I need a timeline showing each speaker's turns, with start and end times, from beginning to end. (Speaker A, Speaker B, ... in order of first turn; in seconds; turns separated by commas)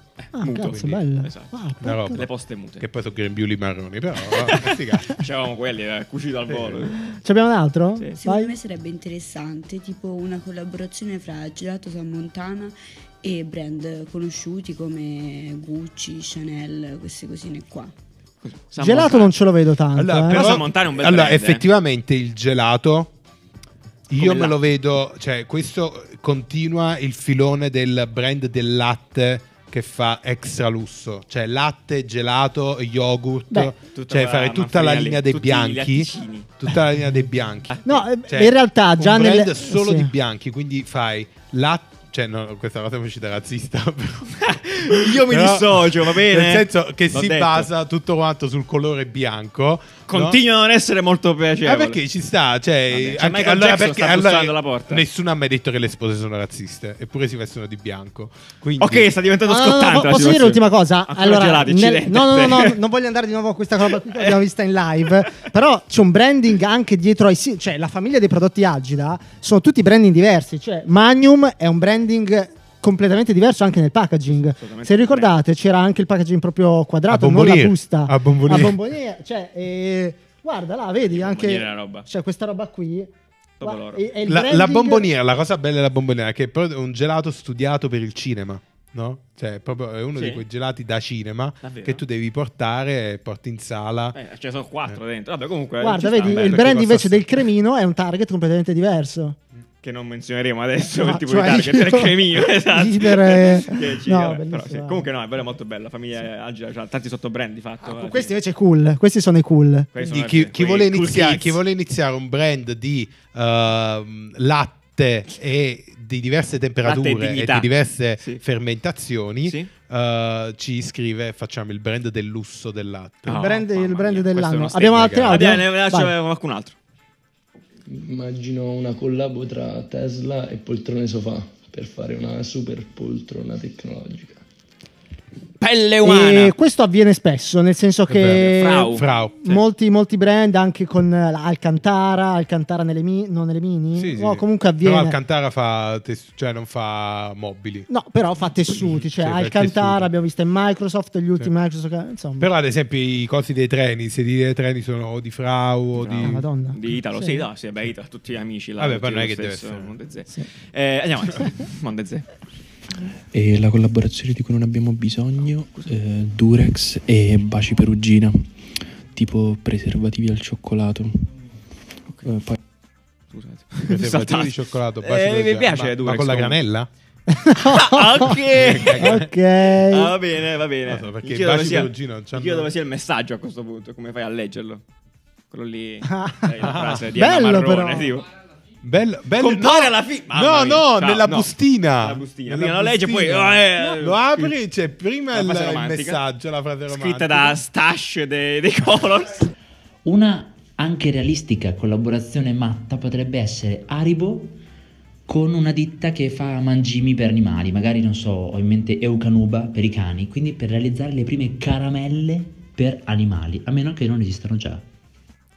Speaker A: 0.2-1.5, Speaker B: 0.4-2.2, Speaker C: 0.6-1.0, Speaker C: 1.8-5.2, Speaker A: 2.1-2.8, Speaker A: 4.3-7.0, Speaker C: 6.5-6.9, Speaker B: 7.1-8.5, Speaker D: 8.2-17.9, Speaker A: 18.4-19.3, Speaker B: 18.8-20.4, Speaker C: 19.9-23.1, Speaker A: 20.3-21.6, Speaker C: 24.1-50.4, Speaker A: 24.1-24.6, Speaker A: 33.9-36.5, Speaker A: 37.7-38.0, Speaker B: 37.8-40.1, Speaker A: 44.4-47.7, Speaker A: 50.1-52.0, Speaker C: 51.6-59.1, Speaker A: 52.9-55.0, Speaker A: 58.8-62.8, Speaker B: 59.5-83.1, Speaker A: 64.1-64.4, Speaker A: 74.6-75.3, Speaker C: 77.1-78.8, Speaker A: 81.1-82.0, Speaker A: 83.6-84.0, Speaker B: 83.6-85.1, Speaker C: 84.3-94.2, Speaker A: 90.1-90.4, Speaker A: 91.6-92.0, Speaker A: 94.1-96.7, Speaker B: 95.8-99.4, Speaker C: 96.2-97.3, Speaker A: 99.8-108.4, Speaker B: 100.9-105.1, Speaker B: 107.8-109.9, Speaker A: 109.9-111.6, Speaker C: 110.0-123.5, Speaker A: 116.8-118.4, Speaker A: 123.3-126.7, Speaker B: 123.4-126.1, Speaker C: 124.8-125.5, Speaker E: 127.9-134.4, Speaker A: 135.6-136.6, Speaker B: 136.0-145.1, Speaker C: 138.1-139.4, Speaker A: 138.3-139.6, Speaker C: 143.9-147.9, Speaker B: 147.9-152.5, Speaker C: 148.8-150.1, Speaker C: 152.4-156.4, Speaker A: 155.9-162.3, Speaker B: 156.2-157.5, Speaker C: 158.8-159.9, Speaker F: 163.3-171.3, Speaker F: 172.2-172.6, Speaker A: 173.3-176.6, Speaker C: 173.9-176.9, Speaker B: 177.3-180.1, Speaker A: 177.7-179.2, Speaker C: 178.5-179.3, Speaker A: 179.9-184.8, Speaker C: 180.9-182.7, Speaker A: 185.5-188.3, Speaker B: 186.1-186.5, Speaker C: 186.6-187.1, Speaker B: 187.1-188.1, Speaker C: 188.8-197.6, Speaker A: 189.4-194.6, Speaker A: 195.3-196.2, Speaker A: 196.9-199.5, Speaker G: 200.1-204.6, Speaker G: 205.3-214.8